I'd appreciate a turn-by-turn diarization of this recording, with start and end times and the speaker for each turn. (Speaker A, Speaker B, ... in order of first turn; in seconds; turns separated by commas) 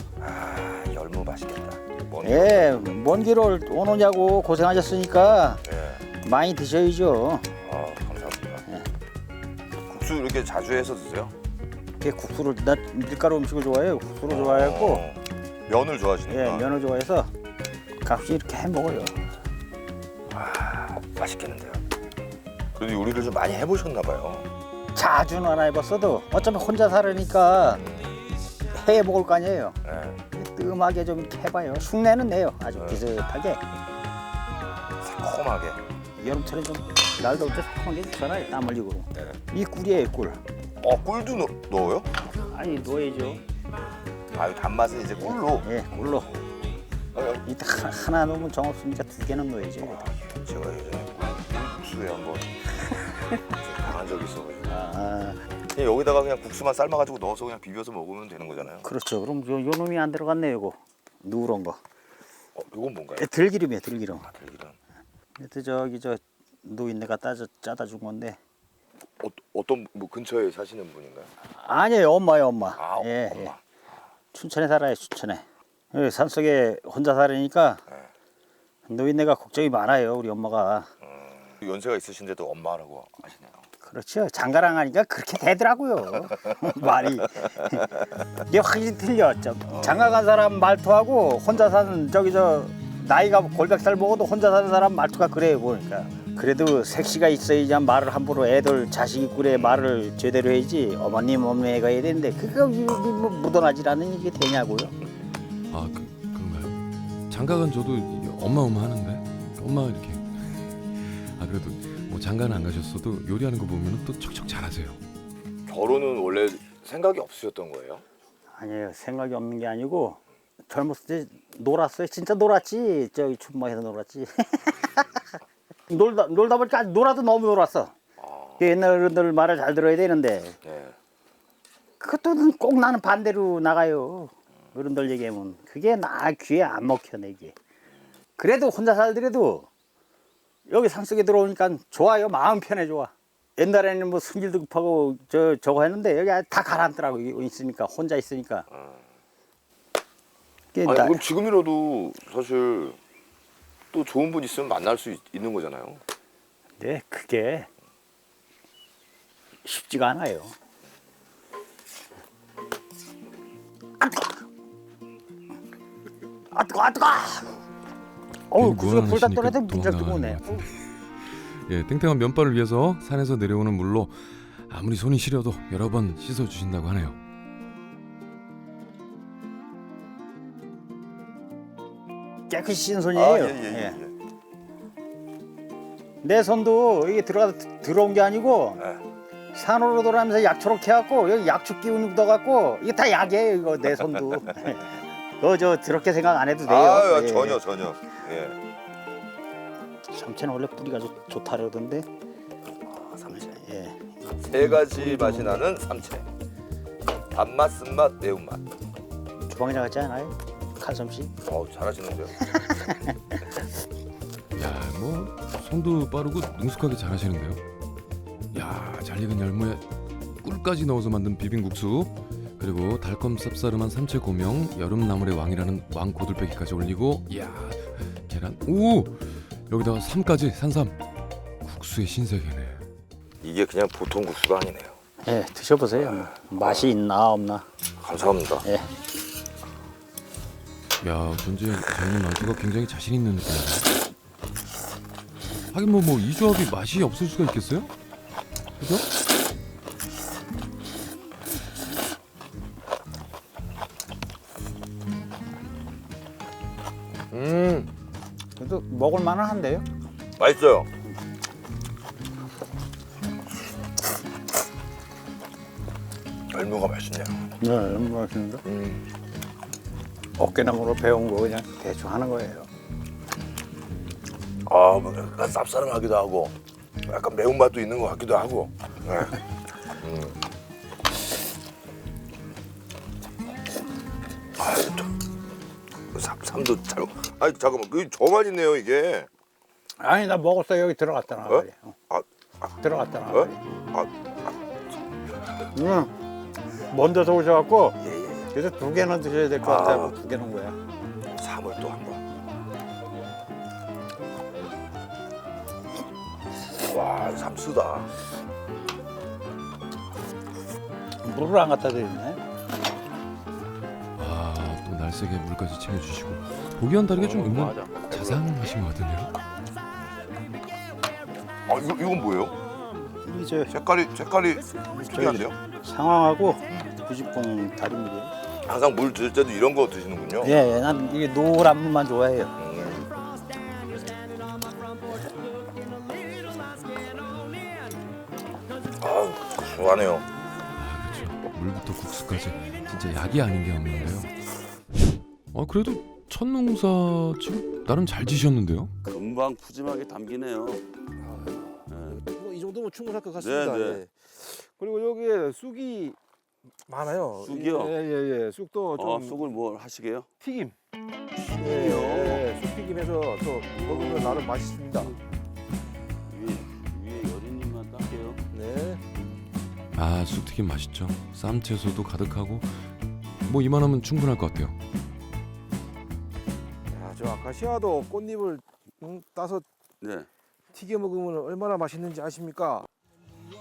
Speaker A: 0.2-2.8, Speaker B: 2.2-5.6, Speaker A: 5.7-6.0, Speaker B: 6.2-7.5, Speaker A: 7.6-8.7, Speaker A: 9.8-11.3, Speaker B: 12.0-15.1, Speaker A: 14.3-16.7, Speaker B: 16.3-17.3, Speaker B: 18.0-19.2, Speaker A: 20.3-21.8, Speaker A: 22.8-24.5, Speaker B: 24.9-27.8, Speaker A: 27.8-28.2, Speaker B: 28.7-29.8, Speaker A: 29.9-30.2, Speaker B: 30.3-33.6, Speaker A: 32.8-33.0, Speaker A: 35.0-35.8, Speaker B: 36.2-40.4, Speaker A: 40.8-42.1, Speaker B: 42.5-43.4, Speaker A: 44.4-45.8, Speaker B: 45.2-46.3, Speaker A: 47.1-47.4, Speaker B: 47.4-50.0, Speaker A: 49.8-52.5, Speaker A: 53.6-54.8, Speaker B: 54.7-55.4, Speaker A: 55.7-58.9, Speaker B: 58.8-61.8, Speaker A: 62.5-63.3, Speaker B: 63.2-64.3, Speaker A: 64.3-64.8, Speaker B: 65.4-68.4, Speaker A: 69.2-71.3, Speaker B: 71.5-73.5, Speaker A: 72.8-73.6, Speaker B: 74.3-77.8, Speaker B: 78.9-80.9, Speaker A: 81.0-83.6, Speaker B: 83.8-105.0, Speaker A: 89.7-90.2, Speaker A: 99.5-99.8, Speaker C: 105.7-106.8, Speaker C: 107.3-115.0, Speaker A: 115.7-118.0, Speaker B: 118.5-125.2, Speaker B: 125.9-127.9, Speaker A: 128.2-128.7, Speaker B: 128.6-130.6, Speaker A: 130.6-131.0, Speaker B: 132.0-137.6, Speaker B: 138.4-139.7, Speaker B: 140.7-148.7, Speaker A: 148.7-149.0, Speaker B: 150.7-151.2, Speaker A: 150.8-153.0, Speaker A: 153.9-156.0, Speaker B: 156.8-157.7, Speaker B: 159.6-160.5, Speaker B: 166.5-167.6, Speaker B: 168.5-170.7, Speaker C: 168.5-177.2, Speaker B: 182.5-184.0, Speaker A: 183.1-184.1, Speaker B: 186.2-188.8, Speaker B: 189.5-197.6, Speaker A: 196.6-198.6, Speaker B: 200.1-202.1, Speaker A: 202.9-203.5, Speaker B: 203.3-205.7, Speaker A: 204.4-206.3, Speaker A: 207.3-208.6, Speaker B: 209.5-211.3, Speaker A: 211.4-212.4, Speaker B: 212.5-213.1, Speaker C: 214.6-217.6, Speaker C: 218.5-219.8, Speaker C: 220.4-231.0, Speaker C: 231.6-232.8, Speaker A: 233.4-235.0, Speaker B: 235.2-237.7, Speaker A: 236.0-236.9, Speaker A: 238.0-238.7, Speaker C: 241.0-243.9, Speaker C: 245.7-247.9, Speaker C: 248.8-249.1, Speaker A: 257.3-257.9, Speaker B: 258.6-259.8, Speaker A: 260.4-260.9, Speaker A: 266.5-267.4, Speaker B: 267.6-268.6, Speaker A: 268.7-269.1, Speaker B: 270.4-272.7, Speaker A: 274.7-276.6, Speaker A: 277.1-279.4, Speaker A: 280.0-280.4, Speaker A: 284.6-285.1, Speaker A: 286.1-289.3, Speaker B: 290.0-292.0, Speaker A: 291.5-292.7, Speaker B: 292.8-293.6, Speaker A: 293.3-294.6, Speaker B: 295.7-296.1, Speaker B: 296.9-298.0, Speaker A: 298.0-298.5, Speaker B: 298.5-300.8, Speaker A: 299.6-300.2, Speaker A: 301.4-302.2, Speaker A: 306.8-308.1, Speaker B: 311.2-312.4, Speaker C: 314.2-319.3, Speaker A: 317.2-318.0, Speaker D: 317.3-318.4, Speaker A: 321.7-322.6, Speaker B: 323.2-323.7, Speaker A: 323.7-325.6, Speaker B: 325.1-328.3, Speaker A: 328.6-330.6, Speaker B: 330.4-332.5, Speaker A: 332.6-333.1, Speaker A: 339.0-340.2, Speaker C: 340.8-344.3, Speaker C: 345.5-348.9, Speaker D: 349.1-350.8, Speaker E: 351.2-356.2, Speaker D: 351.9-352.2, Speaker D: 353.4-354.0, Speaker E: 356.9-359.4, Speaker D: 357.4-358.0, Speaker D: 358.9-360.3, Speaker E: 360.4-360.8, Speaker D: 361.5-362.5, Speaker E: 361.6-365.1, Speaker D: 363.7-365.2, Speaker D: 366.3-368.4, Speaker E: 368.5-369.0, Speaker C: 369.9-372.9, Speaker C: 373.5-374.8, Speaker E: 376.9-379.7, Speaker D: 380.0-380.3, Speaker E: 380.7-382.9